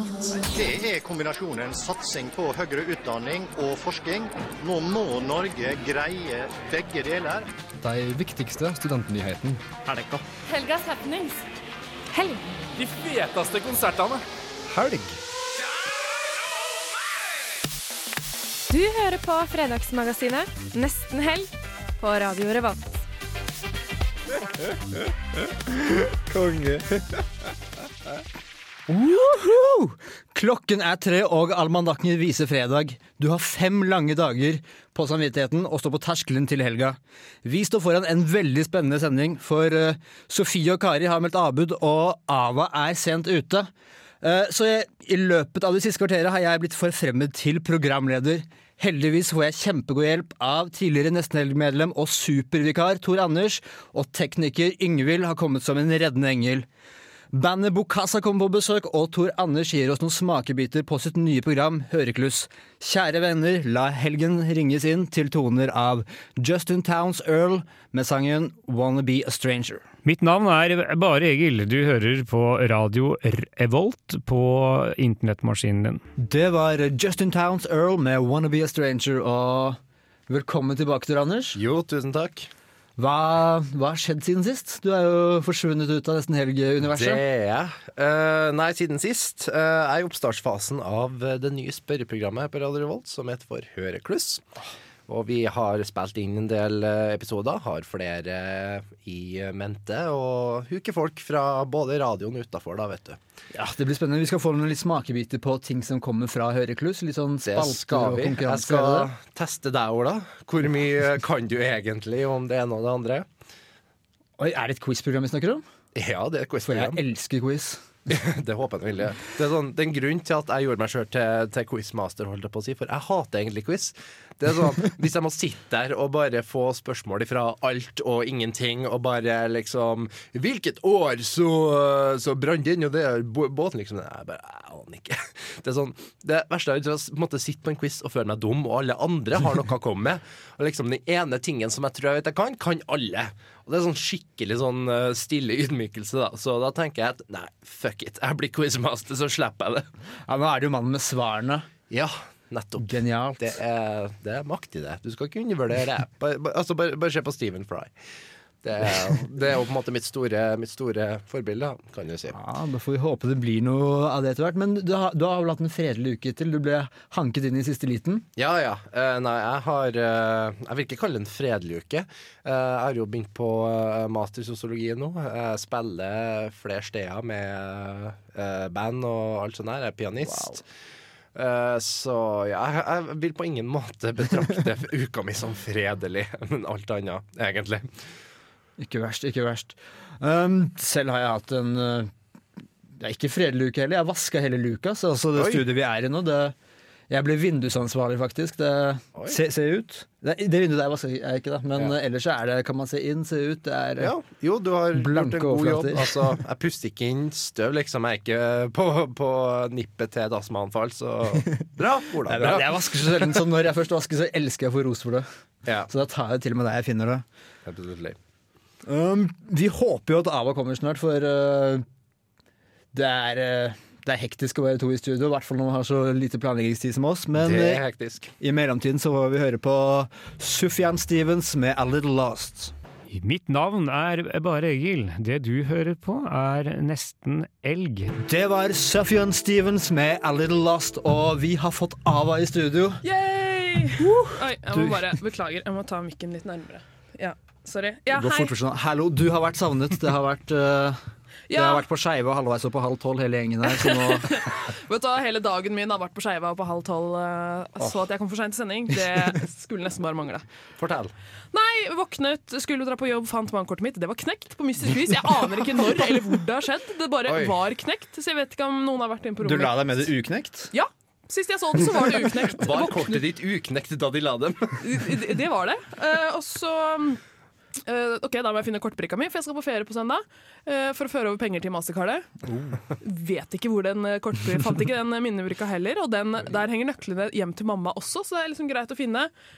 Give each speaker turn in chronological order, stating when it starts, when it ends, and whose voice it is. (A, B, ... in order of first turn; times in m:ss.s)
0:00.4-0:07.5 A
0:07.8-0:10.2 B
0:10.5-0:11.4 C
0:12.1-0:12.4 C
0:12.8-0:15.0 D
0:18.7-0:22.8 C
0:26.3-0:26.8 B
0:28.9-0:43.7 B
0:44.2-0:56.7 B
0:57.3-1:09.9 B
1:10.0-1:16.0 E
1:16.2-1:21.6 B
1:21.5-1:22.5 D
1:23.0-1:27.2 B
1:26.9-1:34.4 D
1:35.1-1:43.2 D
1:43.5-1:49.1 B
1:47.4-1:53.2 D
1:54.4-1:55.6 B
1:55.9-1:57.0 D
1:56.6-1:57.8 B
1:58.1-2:29.9 D
2:30.3-2:31.7 B
2:31.9-2:37.9 D
2:32.8-2:33.5 B
2:38.6-2:42.4 D
2:42.3-2:48.2 B
2:48.4-3:00.6 D
3:01.3-3:07.9 D
3:08.8-3:12.1 B
3:13.0-3:16.5 B
3:15.4-3:15.6 D
3:17.1-3:24.1 B
3:24.0-3:33.4 D
3:24.9-3:26.4 B
3:32.2-3:35.3 B
3:35.9-3:37.2 B
3:37.7-3:38.2 D
3:38.8-3:41.8 B
3:42.9-3:47.8 B
3:47.4-3:48.3 D
3:48.4-3:52.7 B
3:53.1-3:58.1 E
3:58.2-4:03.0 B
4:03.0-4:08.5 F
4:04.0-4:05.1 B
4:08.1-4:11.0 B
4:11.5-4:11.8 F
4:11.5-4:14.4 B
4:13.7-4:20.4 F
4:20.8-4:21.1 D
4:21.5-4:30.0 F
4:27.3-4:27.6 D
4:29.4-4:30.7 B
4:30.7-4:33.2 F
4:32.5-4:35.0 D
4:34.8-4:37.2 F
4:37.9-4:42.3 F
4:42.4-4:42.8 B
4:43.0-4:49.3 F